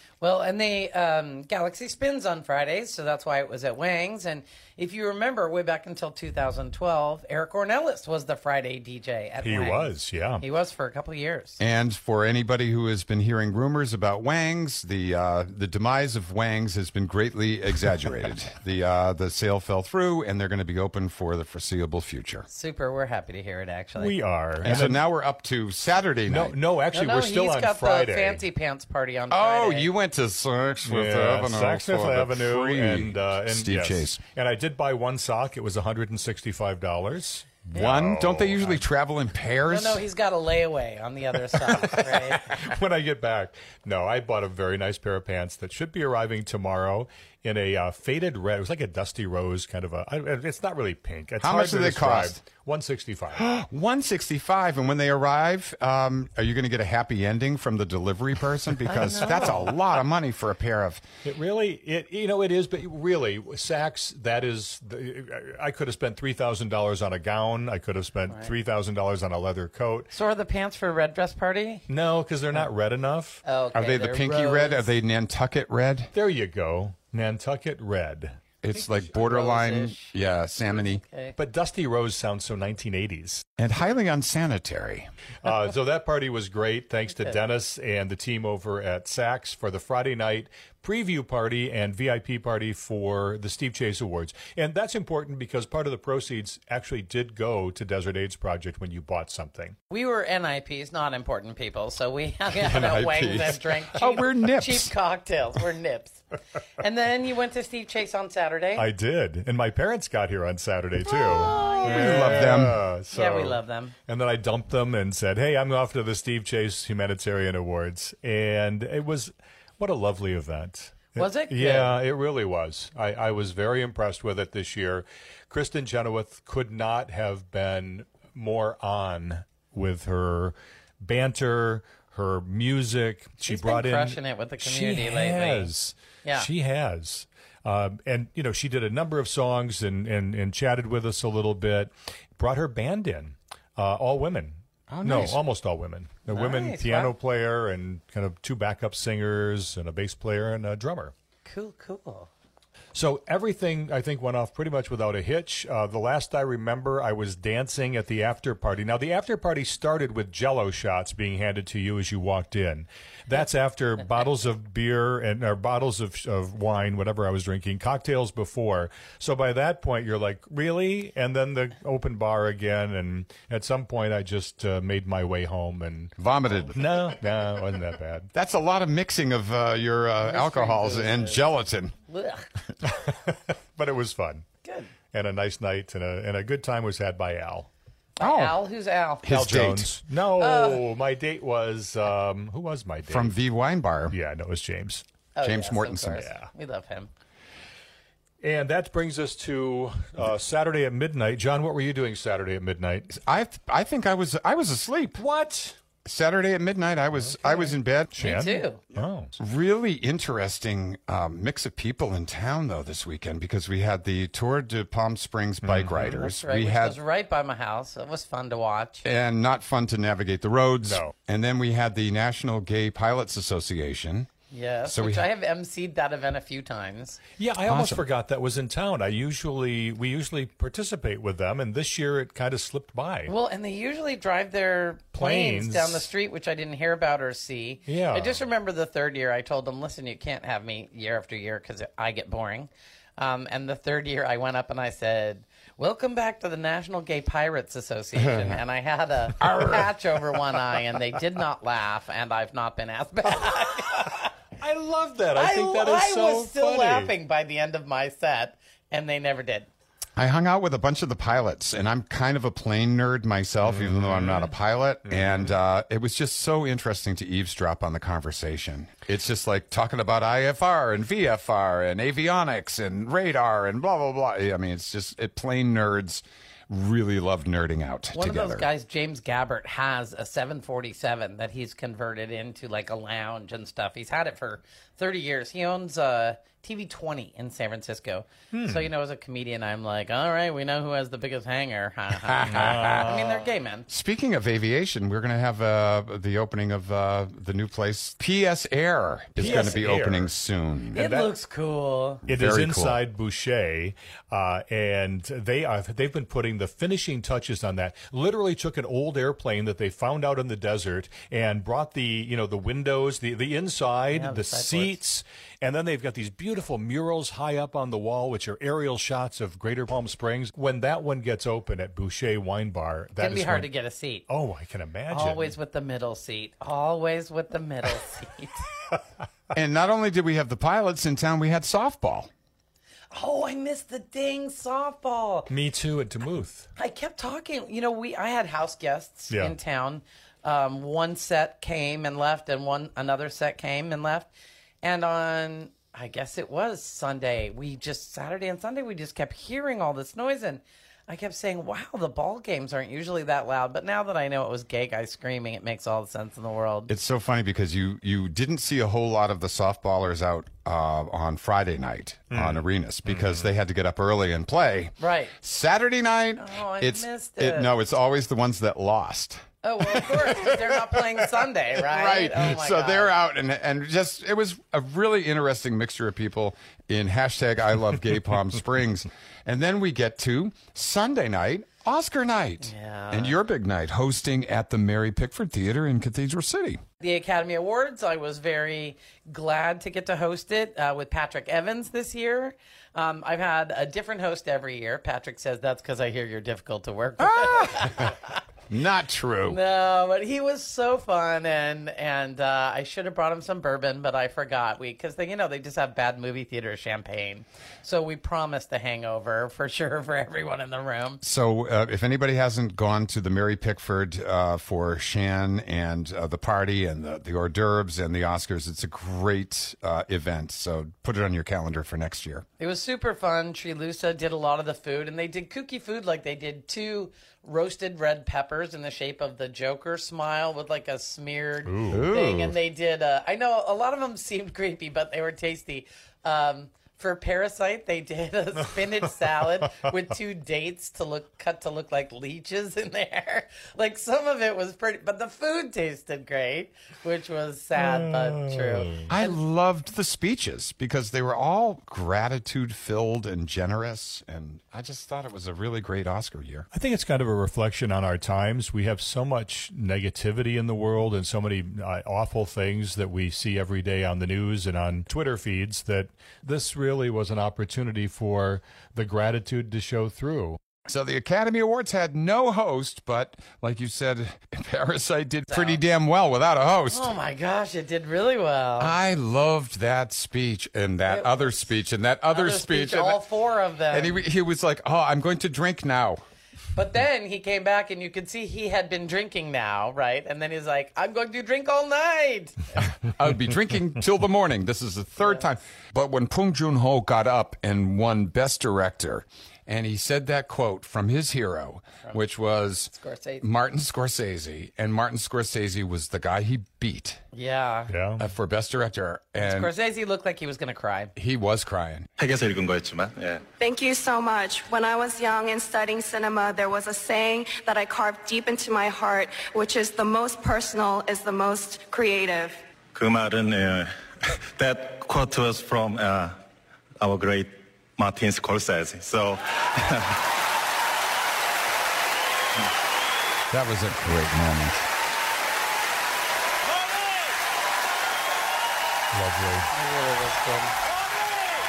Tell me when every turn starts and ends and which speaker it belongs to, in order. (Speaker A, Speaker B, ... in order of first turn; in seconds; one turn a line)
Speaker A: 0.2-11.6
Speaker B: 9.4-10.4
Speaker C: 11.6-22.5
Speaker A: 22.5-24.2
Speaker B: 24.0-25.0
Speaker C: 24.6-26.6
Speaker B: 26.3-28.5
Speaker A: 26.9-29.9
Speaker C: 29.3-34.2
Speaker B: 30.8-38.9
Speaker C: 37.7-40.0
Speaker A: 39.7-42.5
Speaker B: 41.6-53.5
Speaker C: 51.4-52.4
Speaker C: 53.4-61.0
Speaker A: 58.9-59.8
Speaker B: 61.2-70.1
Speaker A: 70.1-71.9
Speaker B: 71.9-73.4
Speaker A: 73.5-74.9
Speaker C: 73.7-76.1
Speaker B: 76.1-78.4
Speaker C: 78.6-81.0
Speaker A: 78.8-80.2
Speaker A: 80.7-81.4
Speaker B: 81.4-83.5
Speaker C: 83.6-85.1
Speaker B: 85.4-99.8
Speaker A: 99.9-106.2
Speaker C: 102.5-104.9
Speaker A: 106.8-108.9
Speaker B: 108.8-151.1
Speaker A: 111.1-112.5
Speaker C: 111.8-112.8
Speaker A: 113.1-114.0
Speaker A: 121.2-122.0
Speaker A: 133.4-135.7
Speaker A: 136.2-136.5
Speaker C: 144.9-145.4
Speaker A: 146.3-147.1
Speaker A: 151.4-152.3
Speaker B: 152.9-176.2
Speaker C: 176.2-177.1
Speaker B: 176.7-178.3
Speaker C: 178.3-181.9
Speaker A: 180.2-181.5
Speaker A: 182.1-182.5
Speaker B: 182.9-184.4
Speaker A: 184.6-184.9
Speaker B: 185.1-187.7
Speaker A: 188.2-189.3
Speaker C: 188.2-188.6
Speaker C: 189.2-189.9
Speaker B: 189.3-193.4
Speaker A: 190.4-190.8
Speaker C: 193.1-194.2
Speaker B: 194.1-195.0
Speaker A: 195.3-197.1
Speaker C: 195.4-196.2
Speaker B: 196.2-196.5
Speaker B: 198.4-203.1
Speaker C: 203.1-205.2
Speaker B: 205.2-205.8
Speaker C: 206.1-208.1
Speaker B: 207.2-209.4
Speaker A: 208.2-208.8
Speaker C: 209.4-217.0
Speaker B: 215.6-216.2
Speaker A: 216.2-219.0
Speaker C: 219.0-224.3
Speaker B: 220.8-221.2
Speaker A: 224.5-227.2
Speaker C: 224.8-225.3
Speaker B: 227.4-233.3
Speaker C: 227.7-228.0
Speaker A: 233.3-254.3
Speaker B: 235.2-236.1
Speaker B: 237.9-238.4
Speaker C: 249.4-250.2
Speaker B: 254.6-257.1
Speaker A: 255.3-259.7
Speaker C: 260.2-278.7
Speaker B: 263.6-264.5
Speaker B: 265.1-265.5
Speaker A: 278.1-293.9
Speaker B: 288.5-288.9
Speaker C: 292.1-293.2
Speaker B: 292.5-293.3
Speaker C: 293.9-301.0
Speaker B: 299.4-300.3
Speaker A: 299.4-299.8
Speaker A: 300.9-302.2
Speaker B: 300.9-301.3
Speaker C: 302.3-303.0
Speaker B: 302.3-323.7
Speaker A: 314.1-315.0
Speaker A: 323.2-324.2
Speaker B: 324.3-325.6
Speaker A: 325.1-328.6
Speaker C: 329.5-332.3
Speaker A: 333.1-335.5
Speaker B: 335.5-336.7
Speaker A: 336.8-344.3
Speaker B: 339.3-339.6
Speaker A: 344.8-356.9
Speaker C: 356.9-370.5
Speaker B: 362.3-362.6
Speaker A: 365.0-365.3
Speaker A: 366.4-367.7
Speaker A: 369.6-373.1
Speaker C: 371.7-386.8
Speaker A: 382.6-383.4
Speaker A: 387.0-398.4
Speaker C: 397.2-398.1
Speaker C: 398.7-399.6
Speaker A: 399.4-411.2
Speaker C: 411.2-422.4
Speaker A: 422.6-449.4
Speaker B: 431.6-432.1
Speaker C: 431.9-432.6
Speaker B: 447.8-449.1
Speaker C: 449.1-456.7
Speaker B: 456.7-470.6
Speaker C: 470.9-477.1
Speaker A: 475.5-475.8
Speaker A: 476.9-479.0
Speaker C: 478.8-483.2
Speaker A: 481.1-481.7
Speaker A: 482.3-484.3
Speaker C: 483.9-486.2
Speaker A: 486.7-493.0
Speaker C: 493.1-507.2
Speaker A: 502.9-503.4
Speaker A: 507.3-507.9
Speaker B: 507.9-508.3
Speaker C: 508.2-509.7
Speaker A: 509.4-511.1
Speaker C: 511.2-512.1
Speaker D: 512.2-513.5
Speaker E: 513.6-522.6
Speaker D: 522.9-523.9
Speaker D: 524.5-526.4
Speaker D: 527.0-530.2
Speaker C: 533.5-534.9
Speaker B: 539.1-539.7
Speaker A: 539.7-540.7